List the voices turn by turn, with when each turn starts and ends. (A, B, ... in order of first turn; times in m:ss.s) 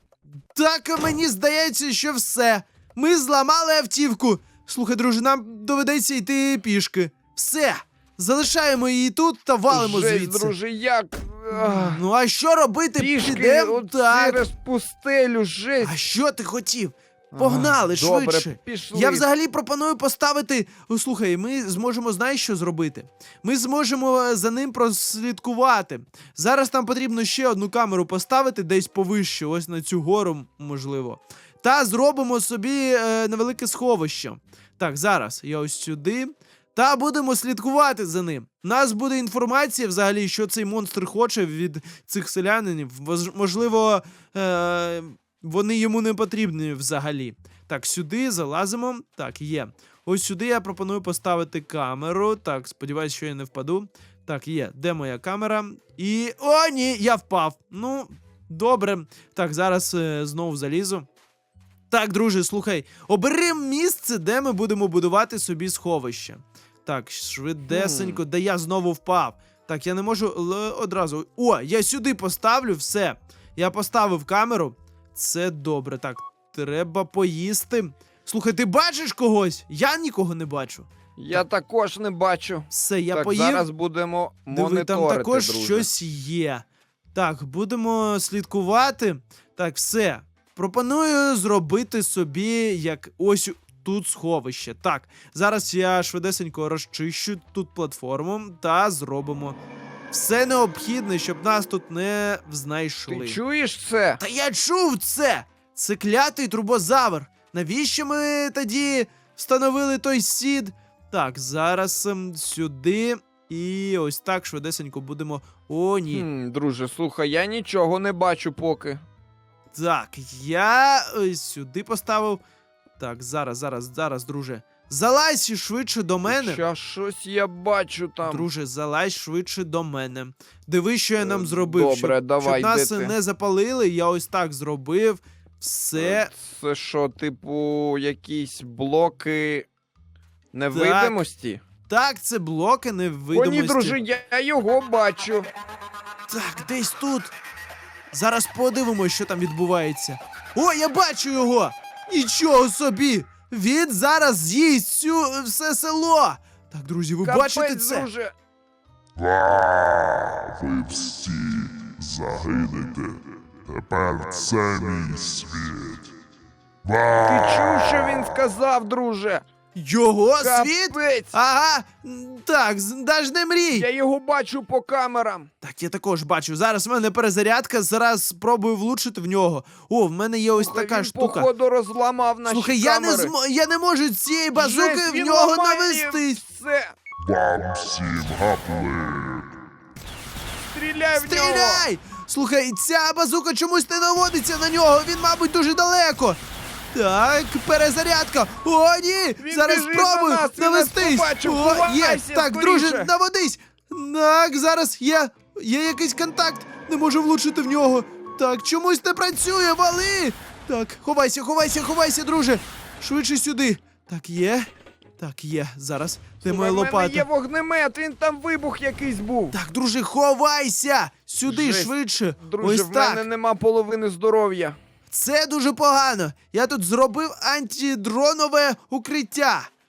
0:00.5-0:10.5 A
0:09.7-0:12.0 B
0:11.5-0:14.4 A
0:13.0-0:15.9 B
0:15.8-1:01.1 A
0:17.3-0:19.2 B
1:01.9-1:21.4 A
1:07.7-1:08.2 B
1:21.2-1:25.9 B
1:22.7-1:23.7 A
1:24.5-1:39.6 A
1:40.1-1:43.4 A
1:43.1-1:44.2 B
1:44.2-1:56.3 A
1:56.1-1:59.0 B
1:59.7-2:02.4 A
2:03.0-2:06.6 A
2:06.3-2:08.5 B
2:08.2-2:16.3 A
2:11.2-2:13.2 B
2:16.0-2:19.7 B
2:20.5-2:21.6 B
2:20.7-2:21.2 A
2:21.9-2:24.0 A
2:23.3-2:25.5 B
2:26.3-2:27.3 A
2:28.1-2:38.1 A
2:37.2-2:38.3 B
2:40.2-2:46.0 C
2:47.1-2:49.4 B
2:49.8-2:53.9 A
2:50.4-2:51.3 B
2:53.7-2:55.5 B
2:55.6-3:01.5 A
3:00.5-3:03.3 B
3:02.5-3:06.4 A
3:04.6-3:06.9 B
3:07.3-3:09.5 C
3:10.7-3:11.8 B
3:11.2-3:16.4 A
3:16.9-3:37.3 A
3:19.4-3:23.1 B
3:36.4-3:39.6 B
3:39.5-3:43.3 A
3:41.5-3:44.8 B
3:45.1-3:49.7 A